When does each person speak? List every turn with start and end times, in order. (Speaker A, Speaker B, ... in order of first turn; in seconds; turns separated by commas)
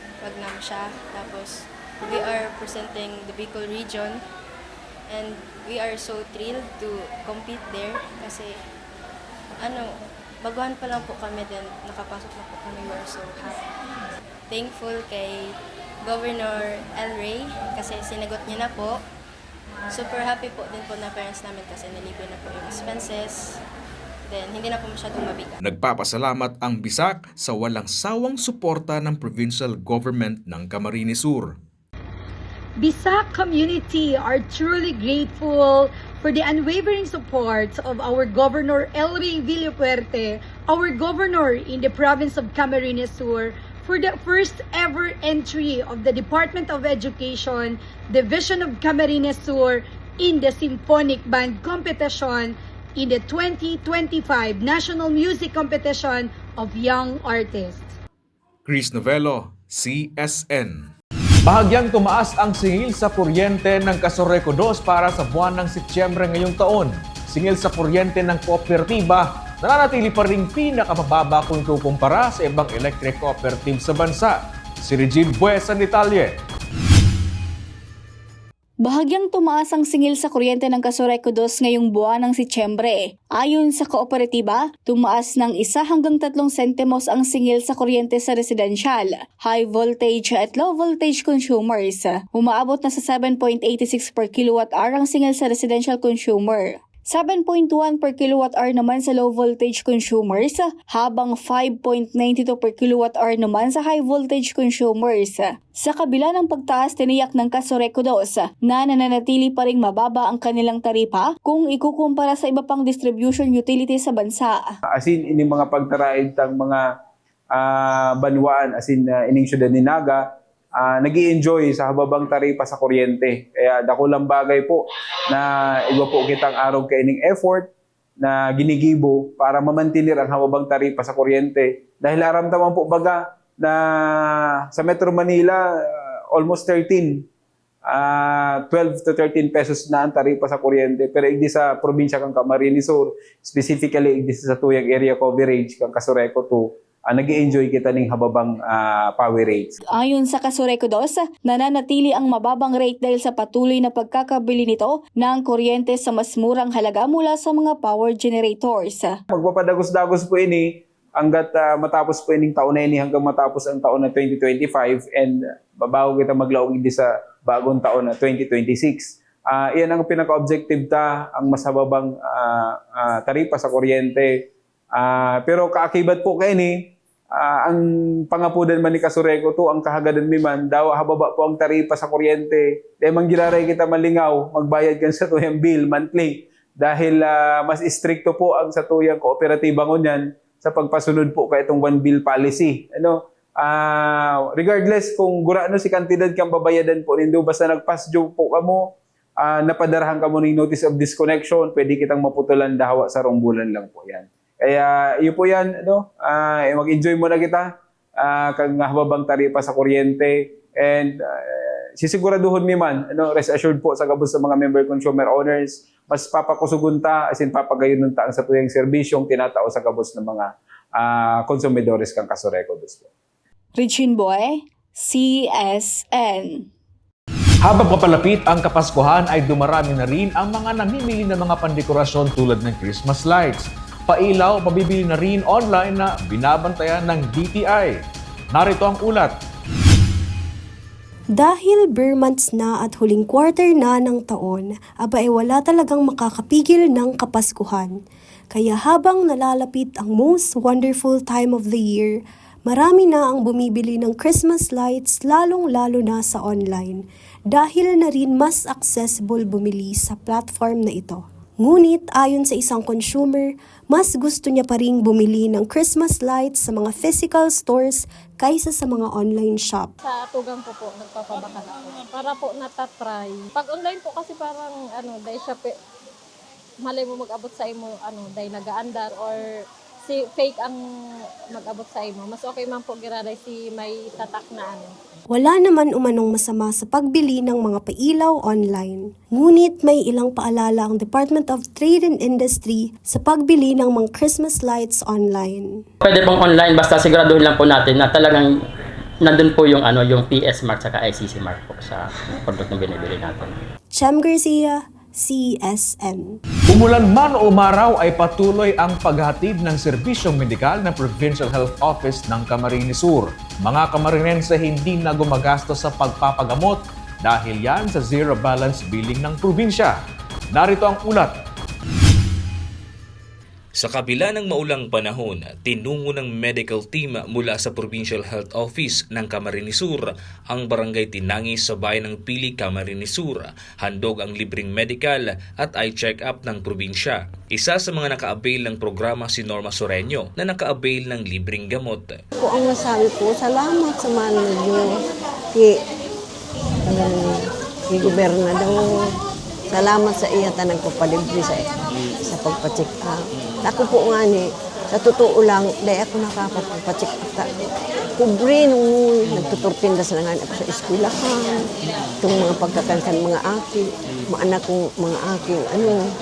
Speaker A: 0.2-4.2, Speaker A: 5.1-8.6, Speaker A: 9.6-13.6, Speaker A: 14.5-19.0, Speaker A: 19.9-23.6, Speaker A: 24.3-25.6, Speaker B: 25.6-31.6, Speaker C: 32.8-57.9, Speaker B: 58.6-60.9, Speaker B: 61.4-76.3, Speaker D: 78.8-114.7, Speaker E: 114.9-116.8, Speaker E: 117.5-137.2, Speaker E: 137.8-149.7, Speaker D: 150.0-159.1, Speaker E: 159.3-223.1, Speaker D: 223.8-226.7, Speaker B: 227.6-238.0, Speaker B: 238.5-239.3, Speaker F: 241.3-248.0, Speaker F: 248.5-269.9, Speaker G: 270.0-275.8, Speaker G: 276.8-279.5, Speaker G: 280.0-280.8, Speaker G: 281.5-284.9, Speaker F: 285.3-295.8, Speaker H: 296.0-298.5, Speaker H: 299.2-303.6, Speaker F: 303.9-306.4, Speaker B: 306.7-320.0, Speaker B: 320.5-321.3, Speaker I: 323.8-342.2, Speaker J: 342.4-344.9, Speaker J: 346.9-349.0, Speaker J: 349.7-351.6, Speaker J: 352.2-357.5, Speaker J: 358.2-361.6, Speaker J: 362.2-366.1